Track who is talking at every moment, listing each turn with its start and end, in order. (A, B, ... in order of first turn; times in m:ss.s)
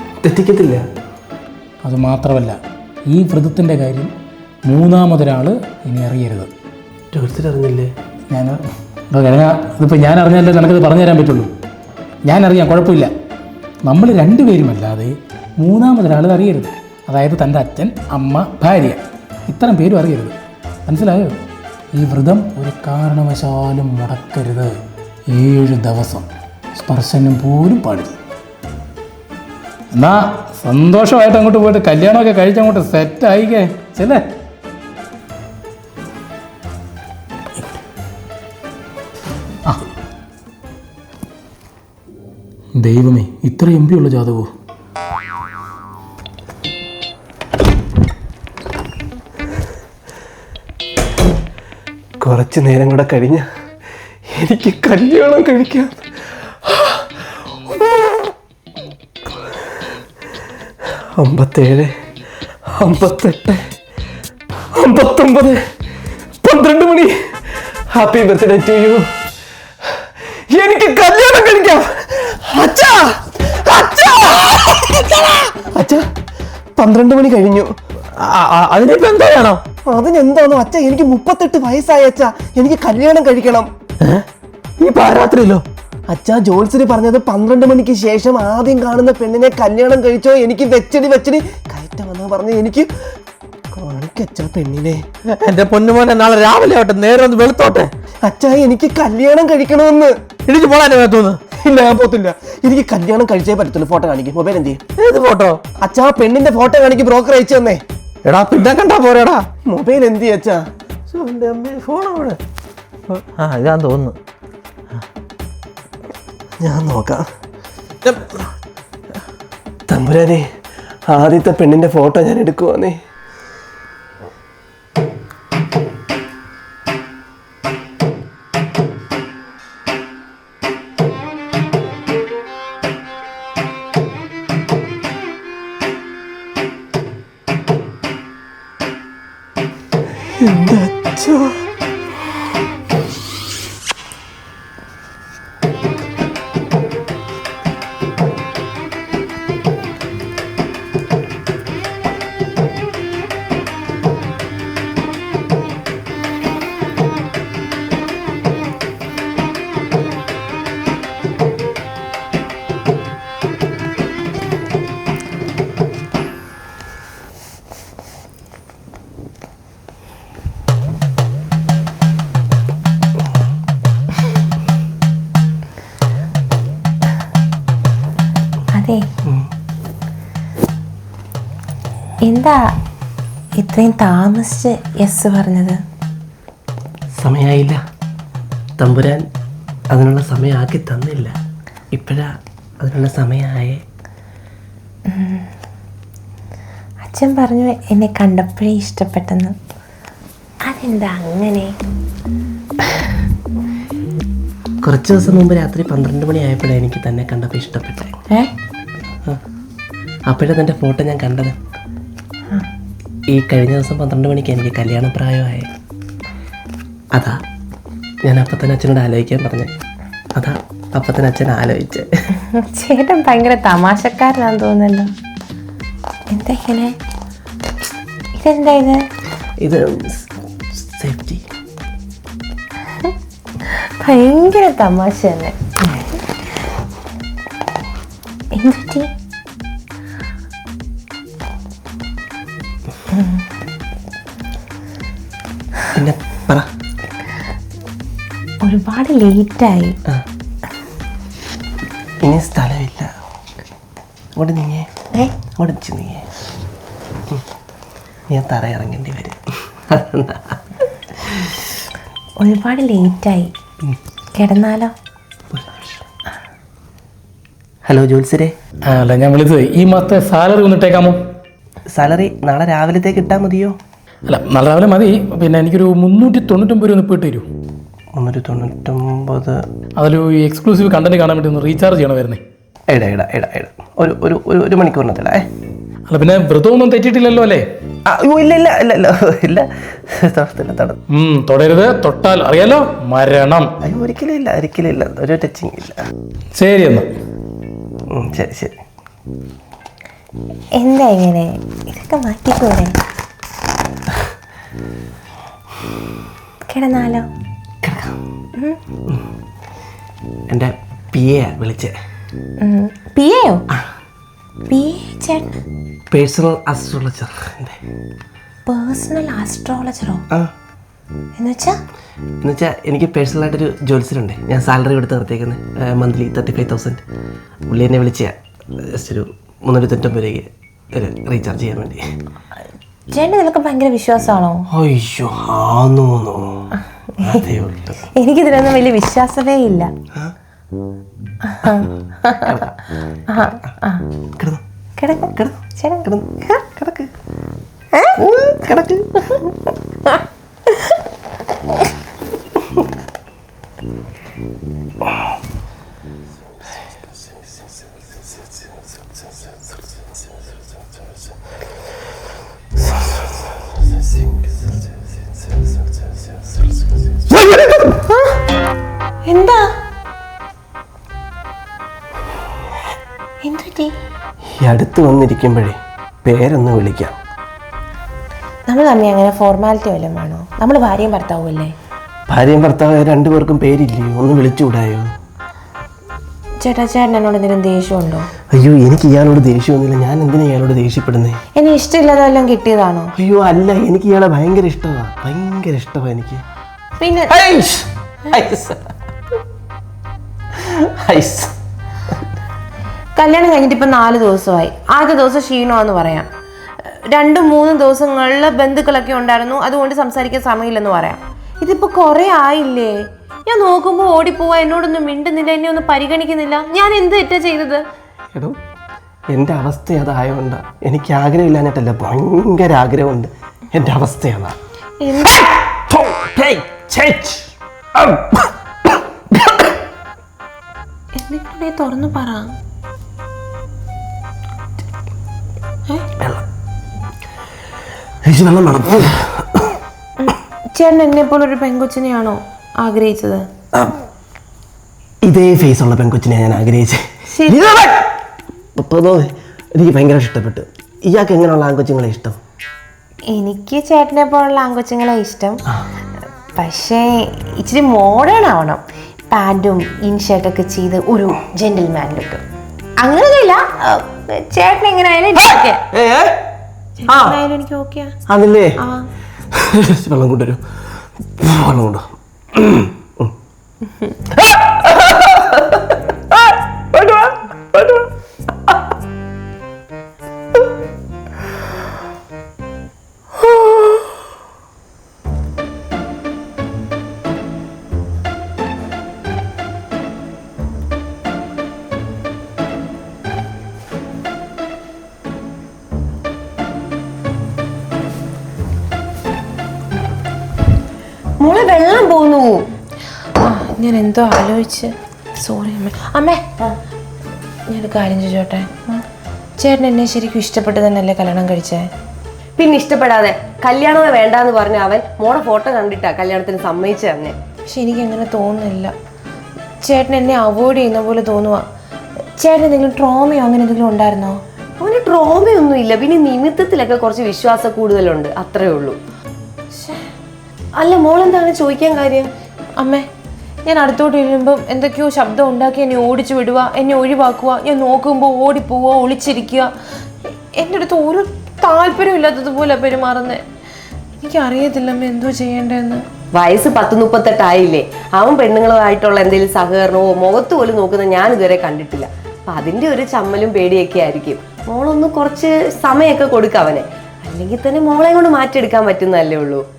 0:00.2-0:00.8 A
0:01.8-0:02.6 B
0:03.1-0:04.1 B
0:04.7-0:06.5 B
0:07.1-0:07.9 A
0:08.3-0:11.5 B
0:12.3-0:13.1 B
0:13.8-0:20.4 B
0:20.9-0:21.3 B
0:22.0-0:24.7 B
0:25.3-0:28.2 B
0:29.9-0:34.2 B
0:42.8-0:44.5 B
0:52.2-0:53.5 A
0:54.3-0:56.1 A
0:56.6-0:58.3 A
1:01.2-1:01.9 A
1:02.8-1:03.7 A
1:04.7-1:05.6 A
1:06.4-1:09.1 A
1:09.9-1:16.0 A
1:16.8-1:17.7 A
1:18.2-1:19.6 C
1:19.9-1:23.7 A
1:24.8-1:25.6 C
1:26.1-1:32.9 A
1:33.7-1:35.1 A
1:35.3-1:37.9 C
1:38.2-1:40.1 A
1:40.5-1:41.4 C
1:41.5-1:44.8 A
1:45.0-1:45.6 C
1:45.8-1:47.8 A
1:48.2-1:49.5 C
1:49.6-1:50.6 A
1:51.1-1:52.3 C
1:51.2-1:52.4 A
1:53.1-1:54.2 C
1:56.6-1:57.2 A
1:58.0-1:58.4 C
1:59.9-2:00.5 A
2:01.1-2:03.0 A
2:20.4-2:21.6 A
2:58.8-2:59.0 D
3:02.2-3:02.8 D
3:03.6-3:05.8 D
3:07.2-3:07.8 A
3:08.8-3:09.2 A
3:09.9-3:11.4 A
3:11.9-3:13.8 A
3:15.1-3:15.5 D
3:17.0-3:19.6 D
3:20.6-3:21.8 D
3:24.8-3:28.2 A
3:30.3-3:31.6 A
3:33.3-3:35.7 A
3:37.1-3:37.4 A
3:38.2-3:39.7 A
3:40.4-3:42.1 A
3:42.5-3:45.1 D
3:46.3-3:47.0 D
3:48.4-3:49.0 D
3:49.6-3:51.4 A
3:53.0-3:56.0 D
3:58.5-3:59.1 D
4:03.1-4:03.4 D
4:05.9-4:06.7 A
4:08.6-4:10.0 D
4:12.2-4:13.1 A
4:14.4-4:14.9 A
4:15.5-4:16.3 A
4:18.3-4:21.6 A
4:22.4-4:23.5 D
4:24.4-4:24.9 D
4:25.5-4:26.0 A
4:27.9-4:28.6 A
4:28.9-4:31.2 B
4:31.9-4:33.8 A
4:34.3-4:37.4 B
4:38.2-4:39.6 A
4:40.0-4:42.4 B
4:42.9-4:45.5 A
4:46.1-4:47.6 B
4:48.1-4:51.0 A
4:51.1-4:53.7 B
4:53.8-4:56.0 A
4:56.6-4:57.1 B
4:58.1-4:58.8 A
5:00.8-5:03.0 D
5:06.7-5:07.3 D
5:07.8-5:08.2 A
5:10.5-5:11.9 A
5:12.6-5:13.6 D
5:14.7-5:15.6 D
5:16.1-5:17.8 A
5:18.7-5:20.2 D
5:21.4-5:21.8 D
5:22.4-5:27.0 A
5:27.7-5:32.0 A
5:33.1-5:34.6 D
5:34.7-5:36.7 A
5:37.2-5:38.1 A
5:38.2-5:39.9 D
5:41.4-5:42.6 D
5:42.4-5:42.7 A
5:43.3-5:44.1 D
5:44.4-5:44.6 A
5:45.0-5:46.7 D
5:46.0-5:47.1 A
5:48.0-5:48.2 D
5:48.2-5:49.4 A
6:09.3-6:09.7 D
6:13.4-6:13.9 D
6:14.6-6:17.2 A
6:18.7-6:21.7 D
6:22.3-6:25.1 A
6:26.6-6:28.3 D
6:28.5-6:31.4 A
6:31.6-6:33.1 D
6:33.2-6:36.4 A
6:37.0-6:37.3 D
6:37.3-6:38.8 A
6:40.5-6:41.5 A
6:43.2-6:46.3 D
6:46.9-6:53.0 D
6:53.5-6:57.8 D
6:59.3-7:04.6 A
7:05.0-7:05.5 D
7:05.2-7:09.7 A
7:11.2-7:12.5 D
7:18.2-7:19.8 A
7:20.2-7:23.5 D
7:25.3-7:28.1 A
7:27.4-7:27.6 D
7:28.8-7:32.4 A
7:33.3-7:35.6 D
7:36.6-7:42.4 D
7:43.0-7:45.8 D
7:45.9-7:46.4 A
7:47.0-7:48.2 D
7:47.1-7:47.4 A
7:48.3-7:48.8 A
7:48.8-7:49.1 D
7:49.5-7:50.6 A
7:51.4-7:53.3 A
7:54.3-7:58.1 A
8:03.5-8:04.0 A
8:21.4-8:22.6 E
8:23.4-8:26.5 D
8:27.7-8:29.0 D
8:29.6-8:31.9 D
8:32.6-8:37.4 E
8:37.7-8:38.9 D
8:39.8-8:41.7 D
8:42.4-8:44.4 D
8:44.8-8:49.0 E
8:49.7-8:50.1 D
8:50.8-8:52.3 E
8:52.8-8:53.1 D
8:53.7-8:59.7 D
9:00.6-9:03.4 D
9:04.2-9:06.0 D
9:06.4-9:19.6 E